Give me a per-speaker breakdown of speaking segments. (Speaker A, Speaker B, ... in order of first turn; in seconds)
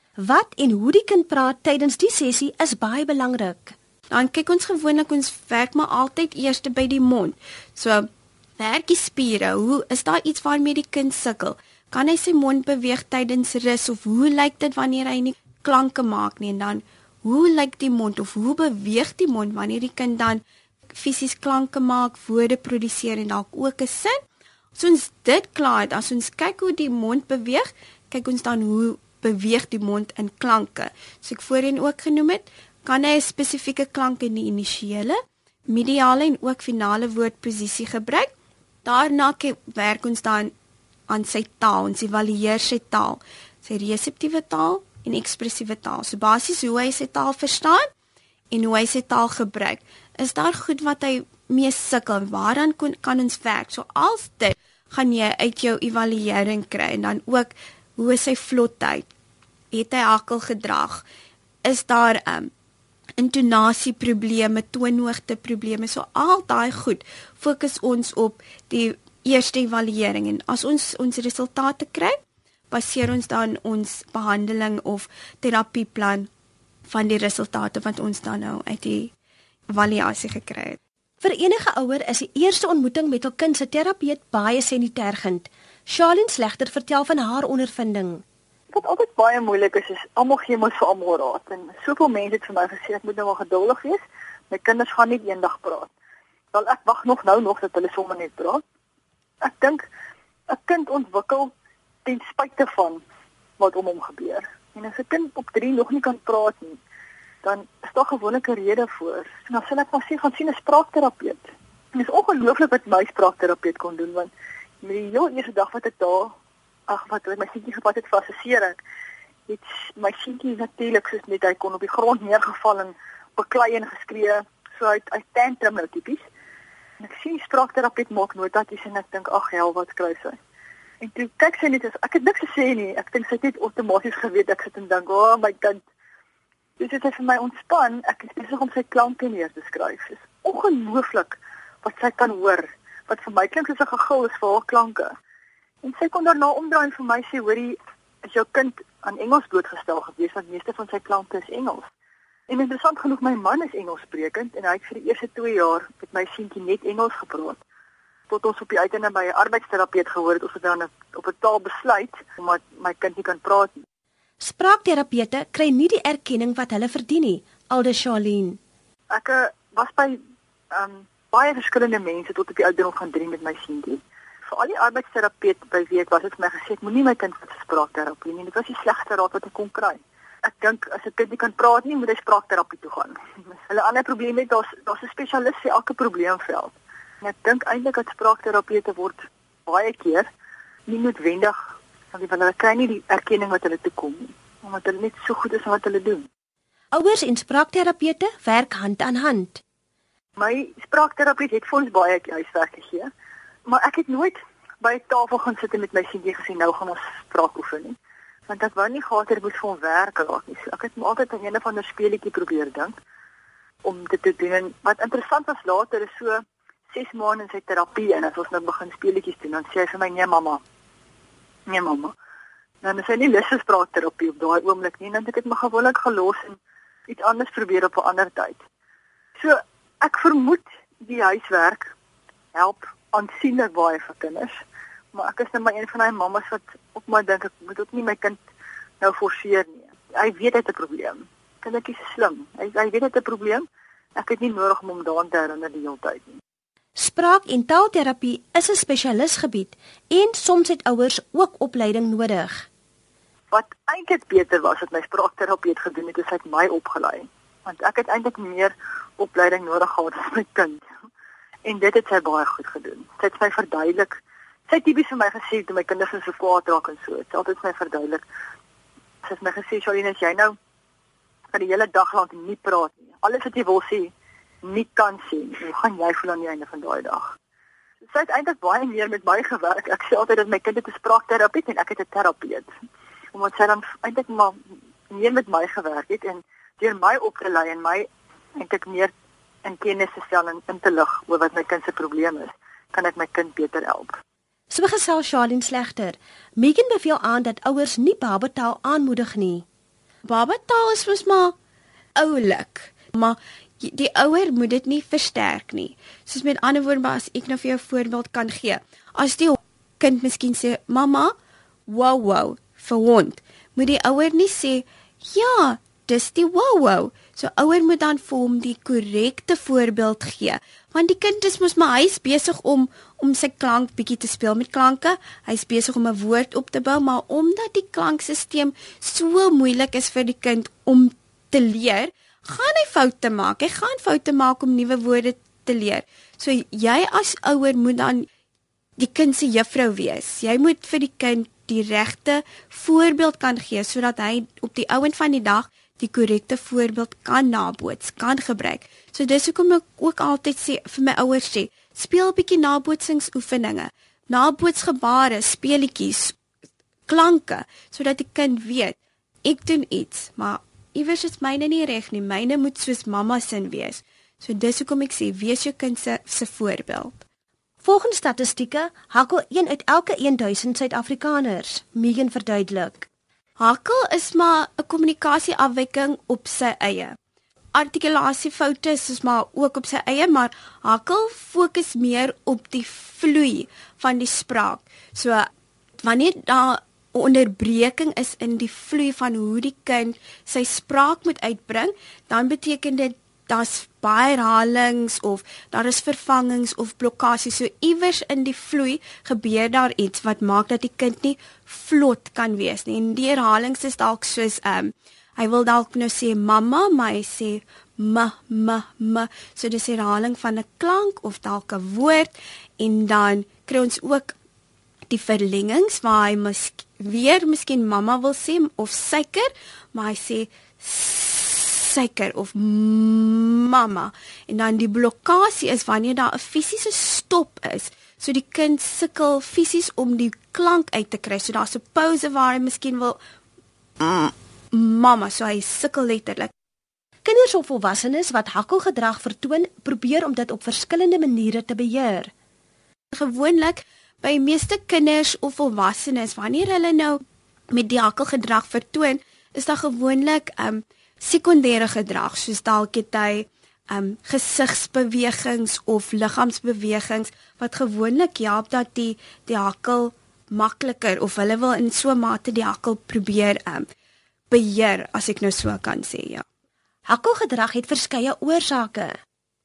Speaker A: 0.2-3.8, 81.2-88.2, 164.4-168.6, 196.9-199.6, 247.0-252.7, 294.7-299.6, 367.8-373.1, 437.2-442.3, 467.1-469.2
Speaker B: 4.1-24.2, 24.8-35.2, 35.7-38.3, 38.9-40.5, 41.1-47.9, 48.5-59.1, 59.7-61.0, 61.6-62.5, 63.2-72.2, 72.7-76.3, 76.9-79.1, 79.7-80.8, 300.3-301.6, 302.2-311.3, 311.9-338.3, 339.0-356.4, 357.1-367.2, 373.6-377.2, 377.7-385.5, 386.0-414.4, 415.1-433.2, 434.0-436.5, 443.1-447.2, 447.7-463.9, 464.5-466.4
Speaker C: 88.7-95.9, 96.5-98.6, 99.4-99.8, 100.5-101.5, 102.0-103.0, 103.6-106.8, 107.4-111.4, 111.9-114.3, 114.8-116.3, 116.9-118.8, 119.5-126.2, 127.0-130.4, 131.0-135.8, 136.8-145.2, 145.8-151.9, 152.5-157.6, 158.3-163.8, 169.1-170.2, 170.7-190.3, 190.9-191.6, 192.1-196.3, 200.4-203.1, 203.7-208.0, 208.5-212.9, 213.8-220.6, 221.7-222.1, 222.8-226.6, 227.1-228.6, 229.4-231.9, 232.5-234.6, 235.1-238.4, 239.0-243.7, 244.2-246.4, 253.5-260.8, 261.6-268.2, 269.2-270.6, 271.5-274.1, 274.6-277.3, 278.1-282.7, 283.3-284.6, 285.1-289.1, 289.6-294.2